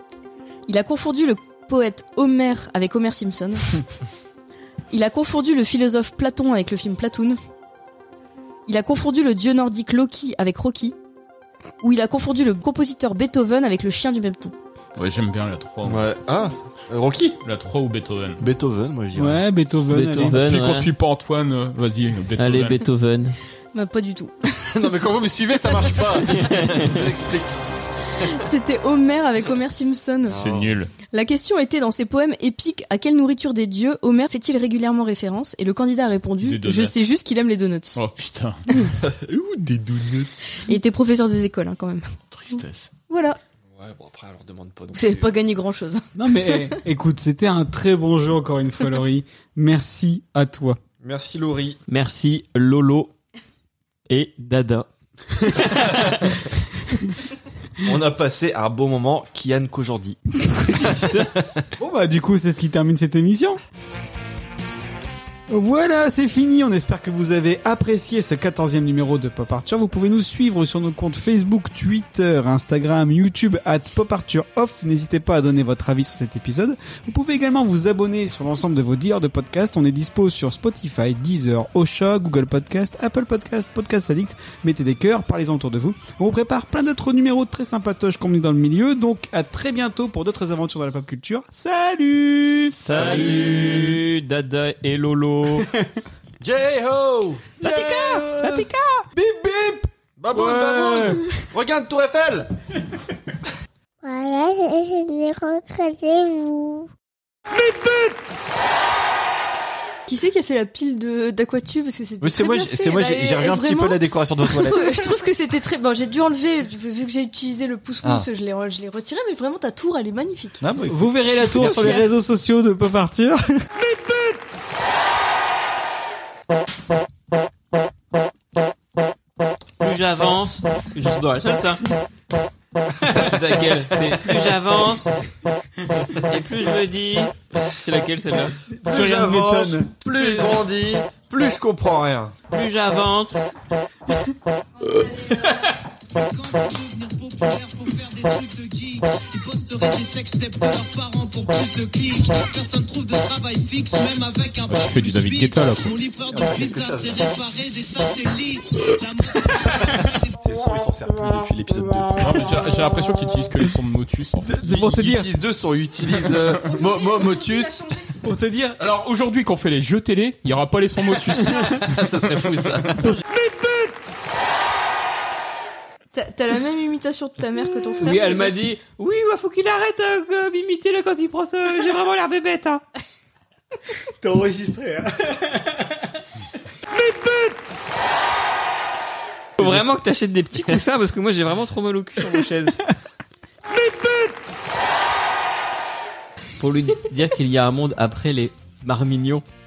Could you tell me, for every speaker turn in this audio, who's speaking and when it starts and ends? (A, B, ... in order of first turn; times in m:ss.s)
0:00.7-0:03.7 A
0:04.9-0:07.4 A
0:08.7-0:10.9 A
0:11.8-0:14.5 A
0:15.0-0:16.1 B
0:15.8-0:17.4 C
0:17.4-0:18.4 B
0:18.4-0:19.4 C
0:19.1-0:20.4 D
0:19.9-0:20.9 E
0:20.3-0:22.8 B
0:22.4-0:23.3 E
0:23.7-0:25.0 A
0:24.7-0:27.6 C
0:25.7-0:26.0 A
0:28.3-0:30.4 A
0:30.3-0:30.9 B
0:30.3-0:30.7 C
0:31.1-0:38.0 A
0:36.4-0:36.9 B
0:37.9-0:38.6 B
0:39.0-0:40.5 C
0:40.6-0:42.1 A
0:42.3-0:42.8 B
0:43.1-0:43.4 A
0:43.8-0:45.3 C
0:44.9-0:46.0 A
0:46.2-0:50.8 D
0:51.0-0:51.8 C
0:51.9-0:53.1 E
0:54.1-0:54.9 E
0:55.5-0:56.1 E
0:57.8-1:01.2 C
1:00.8-1:01.2 E
1:01.8-1:03.6 D
1:05.5-1:33.3 D
1:32.8-1:33.9 C
1:32.8-1:35.7 E
1:36.4-1:37.5 C
1:37.6-1:39.8 D
1:40.2-1:42.5 C
1:40.3-1:41.2 E
1:44.0-1:46.9 F
1:50.1-2:00.6 A
1:52.2-1:55.0 C
2:00.6-2:02.0 C
2:00.9-2:03.6 D
2:01.3-2:02.0 A
2:09.8-2:11.8 E
2:13.1-2:15.1 E
2:16.3-2:18.5 E
2:18.8-2:19.9 D
2:18.9-2:22.3 C
2:20.1-2:20.6 E
2:22.5-2:23.4 E
2:34.6-2:36.0 B
2:36.3-2:37.4 C
2:40.4-2:42.2 C
2:42.2-2:44.5 B
2:44.5-2:45.3 D
2:44.6-2:47.9 C
2:48.2-2:48.8 D
2:48.8-2:51.8 B
2:51.8-2:53.1 C
2:56.1-2:58.5 A
2:58.0-3:02.8 E
3:04.2-3:05.6 D
3:09.6-3:12.7 E
3:16.6-3:19.4 E